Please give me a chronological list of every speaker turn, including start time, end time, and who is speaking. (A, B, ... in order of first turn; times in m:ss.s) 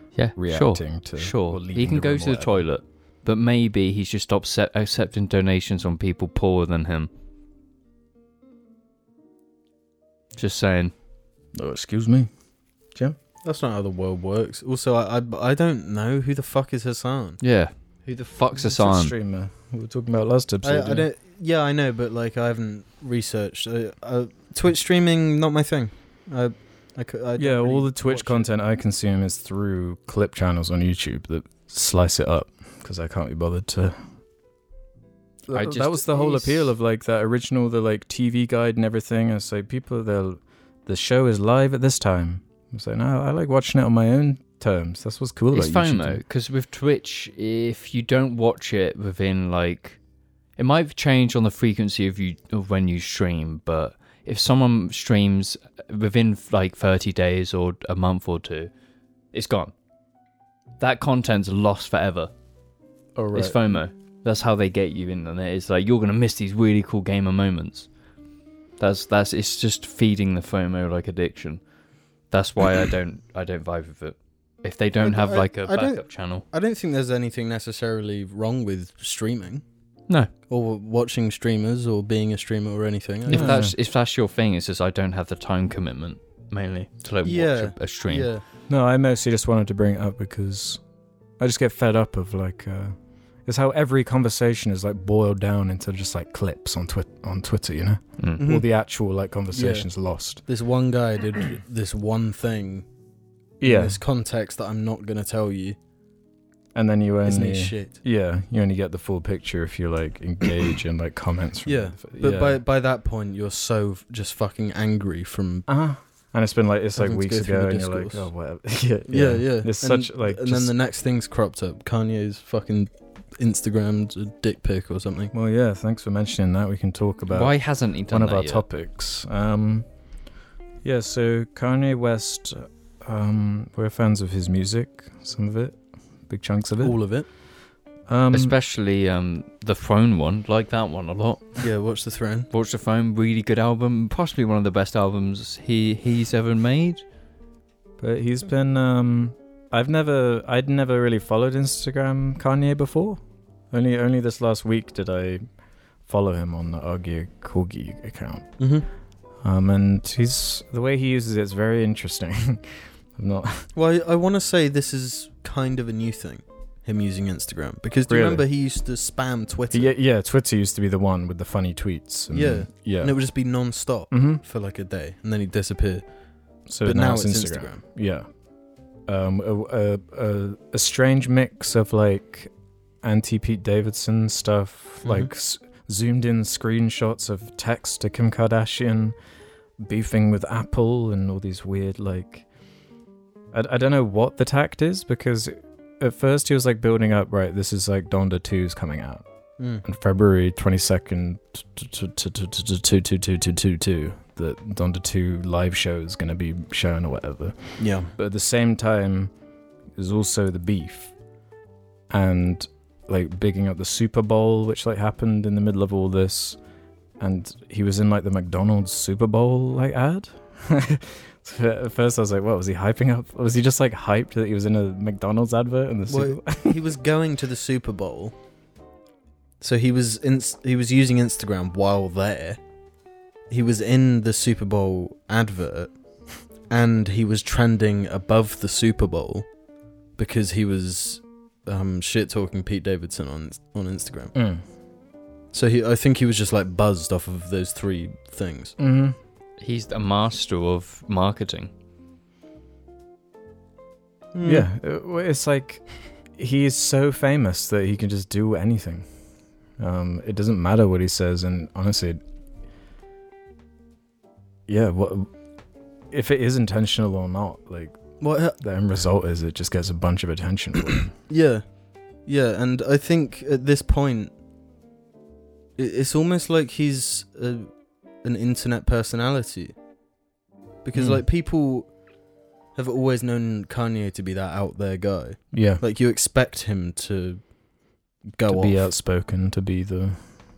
0:00.2-0:07.1 A
0:00.4-0:02.6 B
0:10.4-0:10.9 A
0:11.6-0:12.3 B
0:13.4-0:17.4 C
0:17.4-0:19.1 A
0:18.5-0:21.1 B
0:20.6-0:28.5 C
0:27.4-0:34.0 B
0:35.5-0:46.2 B
0:35.5-0:36.7 A
0:45.5-0:50.0 A
0:50.6-0:58.7 A
0:59.3-0:59.7 A
1:00.8-1:02.3 A
1:03.2-1:03.6 B
1:03.3-1:07.9 A
1:08.8-1:11.6 A
1:12.3-1:16.5 A
1:15.0-1:19.6 C
1:20.5-1:23.6 C
1:23.3-1:28.3 A
1:23.3-1:23.7 B
1:27.2-1:28.4 C
1:28.7-1:30.8 B
1:31.4-1:40.4 B
1:38.4-1:38.7 C
1:39.5-1:39.9 C
1:40.5-1:42.9 C
1:43.6-1:44.0 B
1:43.6-1:45.8 C
1:46.8-1:52.6 B
1:47.3-1:48.0 C
1:51.6-1:55.7 C
1:55.7-2:00.7 B
1:57.0-1:58.3 C
1:59.1-2:05.3 C
2:05.3-2:07.6 B
2:07.3-2:08.6 A
2:08.1-2:09.9 B
2:10.8-2:17.0 B
2:16.8-2:17.3 C
2:18.1-2:18.5 B
2:18.3-2:21.6 A
2:21.6-2:22.5 C
2:22.5-2:27.0 A
2:28.0-2:35.4 B
2:36.1-2:38.6 B
2:38.6-2:38.9 C
2:39.4-2:43.7 B
2:43.8-2:49.9 C
2:48.1-2:48.4 B
2:49.7-2:53.2 B
2:52.3-2:56.0 C
2:54.1-2:54.4 B
2:56.7-2:58.3 B
2:56.8-2:57.8 C
2:59.1-3:09.2 B
3:05.0-3:05.3 C
3:09.8-3:12.5 B
3:13.5-3:19.2 B
3:19.6-3:19.8 C
3:19.8-3:29.3 B
3:27.8-3:28.1 C
3:30.0-3:31.1 B
3:32.1-3:36.6 B
3:37.2-3:46.9 B
3:46.1-3:48.3 C
3:49.6-3:52.6 C
3:53.5-3:55.9 C
3:56.7-3:59.5 C
4:00.2-4:04.3 C
4:04.3-4:04.6 B
4:05.5-4:08.8 C
4:08.8-4:09.2 B
4:09.6-4:11.7 A
4:14.3-4:14.7 C
4:14.4-4:19.1 B
4:19.8-4:22.2 B
4:24.7-4:25.3 B
4:26.1-4:31.2 B
4:28.2-4:28.6 C
4:31.3-4:31.7 C
4:32.2-4:34.3 C
4:35.8-4:37.7 C
4:38.2-4:39.8 C
4:40.8-4:41.9 C
4:41.0-4:41.2 B
4:42.8-4:47.4 C
4:45.5-4:45.8 B
4:48.4-4:48.9 C
4:48.5-4:50.2 B